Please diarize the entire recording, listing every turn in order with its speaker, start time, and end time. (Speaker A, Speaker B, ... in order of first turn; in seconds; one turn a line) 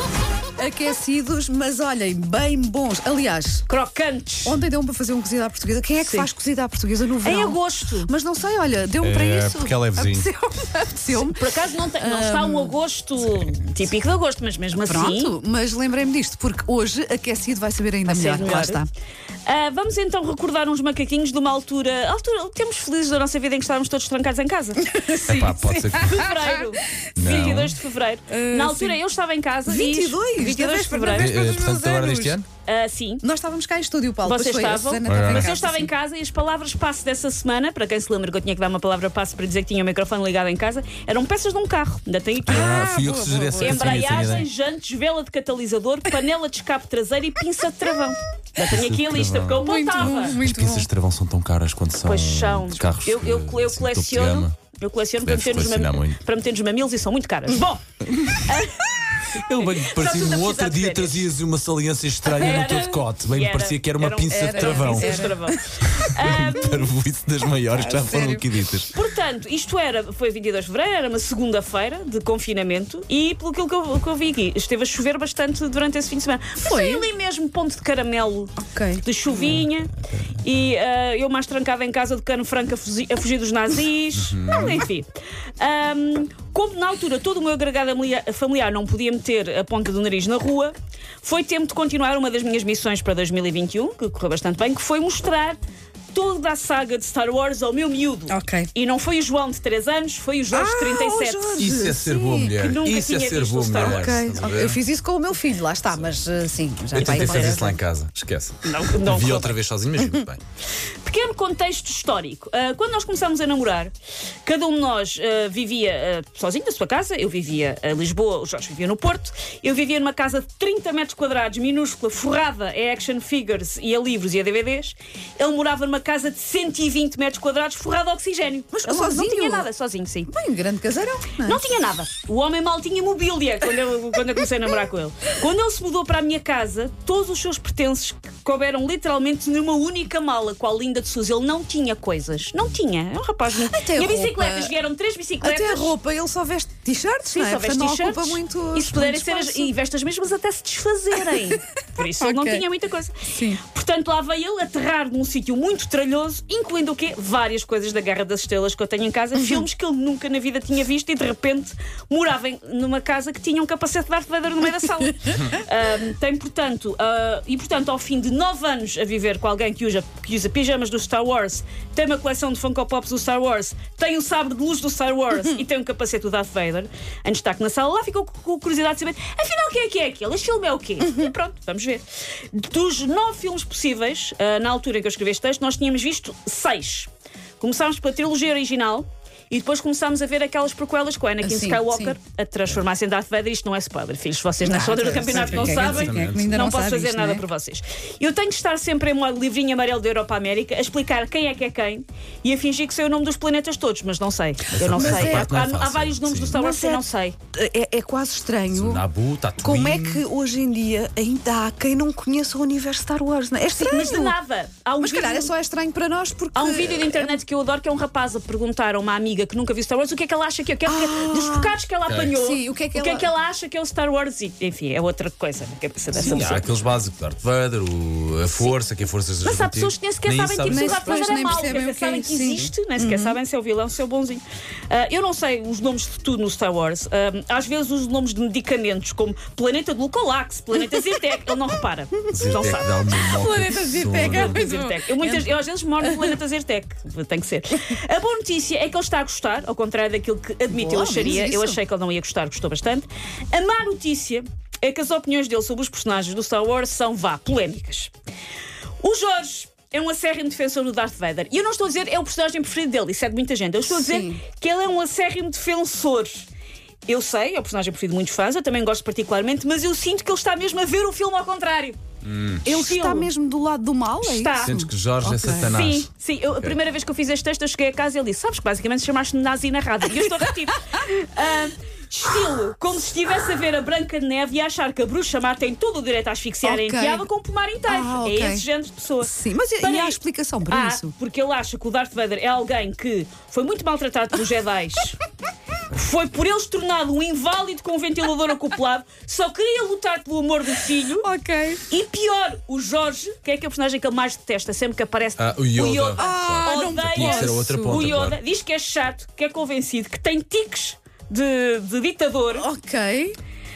Speaker A: 0.6-3.6
Speaker B: 3.7-4.6
Speaker A: 4.4-12.7
Speaker B: 6.0-6.3
Speaker B: 7.2-8.1
Speaker C: 9.0-10.3
Speaker B: 11.1-15.3
Speaker A: 14.8-18.9
Speaker B: 18.1-18.8
Speaker B: 19.4-24.9
Speaker A: 24.8-26.6
Speaker C: 25.2-26.3
Speaker B: 25.9-31.3
Speaker C: 27.1-27.8
Speaker A: 28.3-29.0
Speaker A: 29.7-32.4
Speaker C: 31.1-32.5
Speaker B: 32.6-33.2
Speaker A: 33.2-35.9
Speaker B: 34.2-42.7
Speaker C: 35.0-35.5
Speaker C: 42.5-44.5
Speaker A: 42.5-44.4
Speaker B: 43.6-50.4
Speaker C: 48.5-54.5
Speaker A: 49.6-50.9
Speaker B: 52.0-57.8
Speaker C: 55.2-56.2
Speaker C: 58.1-58.6
Speaker B: 58.4-61.3
Speaker C: 59.3-68.9
Speaker B: 62.3-66.9
Speaker A: 62.4-62.7
Speaker A: 64.3-65.6
Speaker A: 66.1-66.8
Speaker A: 67.7-68.5
Speaker B: 68.9-95.6
Speaker A: 76.6-77.1
Speaker A: 78.6-79.5
Speaker C: 84.1-84.9
Speaker B: 96.1-101.7
Speaker A: 98.3-98.7
Speaker A: 100.5-102.6
Speaker C: 101.6-104.8
Speaker B: 102.5-104.2
Speaker A: 103.8-107.8
Speaker B: 106.9-107.7
Speaker C: 106.9-110.4
Speaker B: 108.6-109.5
Speaker B: 111.0-113.9
Speaker B: 114.4-130.3
Speaker A: 128.7-129.7
Speaker A: 130.3-131.6
Speaker B: 131.4-145.9
Speaker A: 143.5-144.7
Speaker A: 145.4-149.7
Speaker B: 147.3-207.4
Speaker A: 151.2-152.7
Speaker A: 153.2-153.6
Speaker A: 159.3-159.6
Speaker A: 181.0-181.3
Speaker A: 191.4-192.2
Speaker A: 194.6-197.4
Speaker C: 195.3-196.5
Speaker C: 204.7-206.5
Speaker A: 204.8-205.6
Speaker A: 206.5-209.0
Speaker C: 208.7-210.2
Speaker A: 209.6-214.3
Speaker B: 213.7-215.5
Speaker A: 215.0-217.4
Speaker B: 216.5-226.6
Speaker A: 220.8-221.8
Speaker C: 222.1-222.3
Speaker A: 222.3-223.3
Speaker C: 226.1-231.8
Speaker B: 229.4-242.9
Speaker A: 230.7-233.4
Speaker C: 242.3-244.7
Speaker A: 243.2-246.4
Speaker B: 243.9-258.1
Speaker A: 250.7-251.8
Speaker B: 259.0-266.4
Speaker A: 263.8-264.4
Speaker B: 267.1-272.0
Speaker C: 272.2-272.8
Speaker B: 272.6-273.3
Speaker A: 272.6-275.7
Speaker B: 274.2-274.8
Speaker C: 274.5-276.8
Speaker B: 275.6-295.2
Speaker A: 286.6-287.3
Speaker A: 287.9-288.6
Speaker A: 289.2-291.1
Speaker B: 295.9-301.3
Speaker A: 301.2-301.8
Speaker B: 301.9-312.7
Speaker C: 305.4-308.4
Speaker A: 306.1-308.1
Speaker A: 312.6-313.4